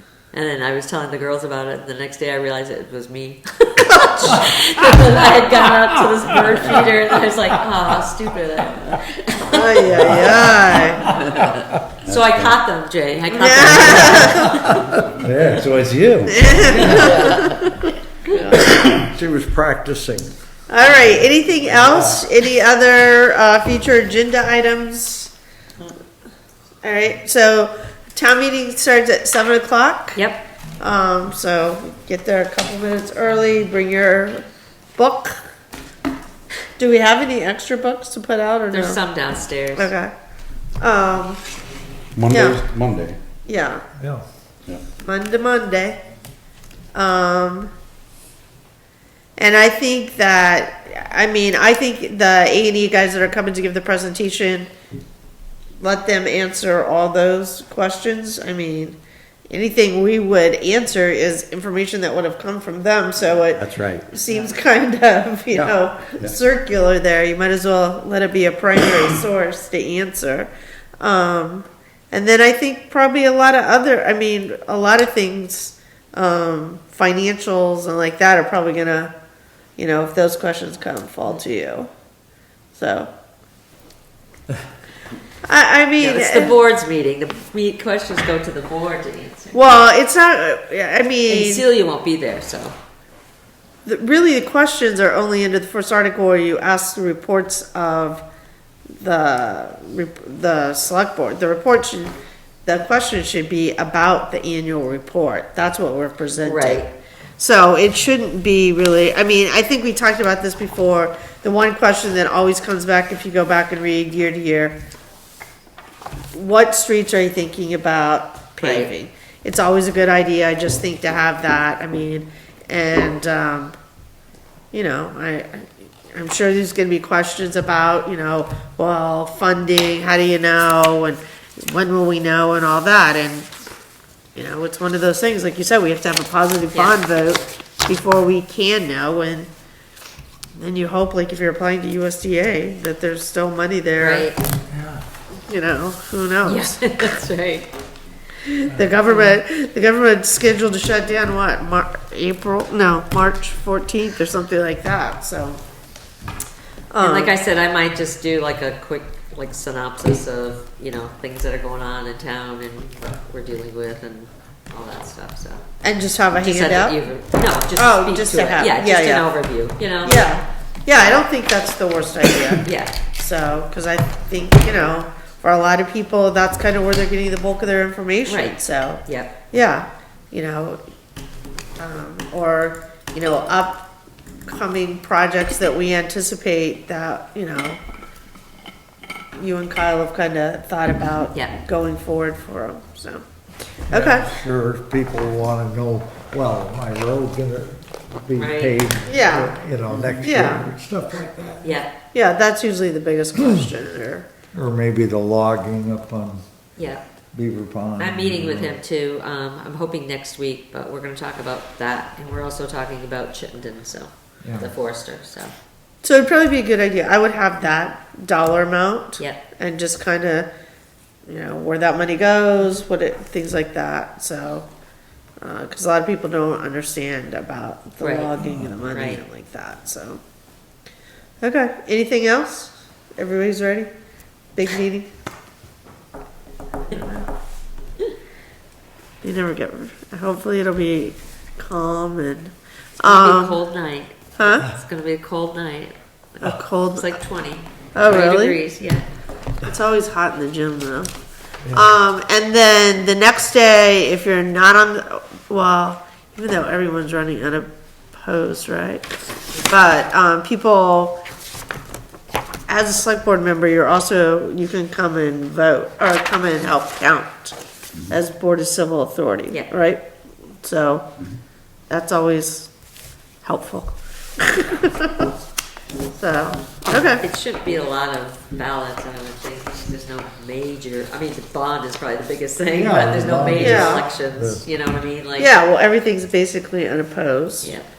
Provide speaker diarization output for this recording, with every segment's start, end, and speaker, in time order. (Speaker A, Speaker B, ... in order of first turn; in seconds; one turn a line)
Speaker A: 0.3-10.2
Speaker B: 9.5-11.1
Speaker C: 10.1-10.6
Speaker A: 11.1-14.9
Speaker D: 12.0-12.5
Speaker B: 13.3-14.6
Speaker C: 14.7-17.4
Speaker D: 16.2-17.0
Speaker B: 16.3-17.9
Speaker A: 16.8-18.5
Speaker C: 18.5-20.3
Speaker B: 20.7-25.3
Speaker C: 21.8-22.2
Speaker B: 26.8-30.2
Speaker A: 30.1-30.4
Speaker B: 30.8-34.4
Speaker B: 35.0-35.4
Speaker B: 36.8-39.0
Speaker A: 38.7-39.9
Speaker B: 39.8-40.1
Speaker B: 40.8-41.4
Speaker D: 42.1-43.2
Speaker B: 42.3-42.6
Speaker B: 43.5-43.8
Speaker C: 44.0-44.3
Speaker B: 45.0-46.0
Speaker B: 46.9-47.7
Speaker B: 49.4-54.7
Speaker B: 55.8-59.0
Speaker B: 59.5-70.5
Speaker D: 63.6-64.0
Speaker D: 65.5-66.3
Speaker B: 71.0-79.1
Speaker B: 79.8-81.9
Speaker B: 82.8-83.1
Speaker B: 85.5-86.5
Speaker A: 86.0-89.6
Speaker B: 89.5-91.6
Speaker A: 91.3-92.7
Speaker B: 93.8-98.2
Speaker B: 99.0-102.1
Speaker B: 102.7-114.8
Speaker A: 106.4-106.9
Speaker B: 116.3-123.7
Speaker A: 118.6-118.9
Speaker B: 124.7-133.5
Speaker B: 134.3-139.5
Speaker B: 140.6-144.3
Speaker A: 144.0-144.4
Speaker C: 144.7-145.0
Speaker B: 145.5-147.2
Speaker A: 146.4-147.7
Speaker B: 148.4-155.6
Speaker A: 149.1-149.4
Speaker B: 156.9-157.3
Speaker A: 157.0-165.6
Speaker B: 165.8-166.9
Speaker A: 166.4-170.3
Speaker B: 167.8-169.3
Speaker B: 170.0-172.7
Speaker A: 172.6-172.9
Speaker B: 173.2-180.8
Speaker A: 178.3-179.3
Speaker B: 181.8-183.9
Speaker B: 184.5-187.8
Speaker B: 189.4-193.2
Speaker B: 193.9-194.3
Speaker C: 193.9-201.8
Speaker A: 198.3-198.8
Speaker B: 199.1-199.6
Speaker B: 200.1-200.6
Speaker A: 201.6-201.9
Speaker B: 202.1-204.3
Speaker C: 203.4-203.7
Speaker C: 204.5-206.4
Speaker A: 206.8-207.0
Speaker C: 207.3-208.8
Speaker A: 208.0-215.5
Speaker C: 214.4-214.7
Speaker B: 216.0-220.5
Speaker B: 221.3-224.7
Speaker B: 225.4-230.2
Speaker A: 228.0-228.3
Speaker A: 228.8-229.2
Speaker B: 231.4-233.9
Speaker B: 234.6-235.1
Speaker B: 236.9-237.3
Speaker B: 239.2-243.6
Speaker A: 243.0-249.1
Speaker B: 244.4-244.7
Speaker B: 246.4-247.1
Speaker B: 247.9-248.6
Speaker B: 249.6-251.1
Speaker B: 251.7-261.2
Speaker B: 262.7-267.6
Speaker B: 268.1-270.0
Speaker B: 270.6-271.1
Speaker B: 271.9-272.7
Speaker B: 273.4-275.3
Speaker B: 276.1-277.2
Speaker A: 277.1-285.5
Speaker C: 282.7-284.6
Speaker B: 283.5-284.1
Speaker B: 285.4-287.7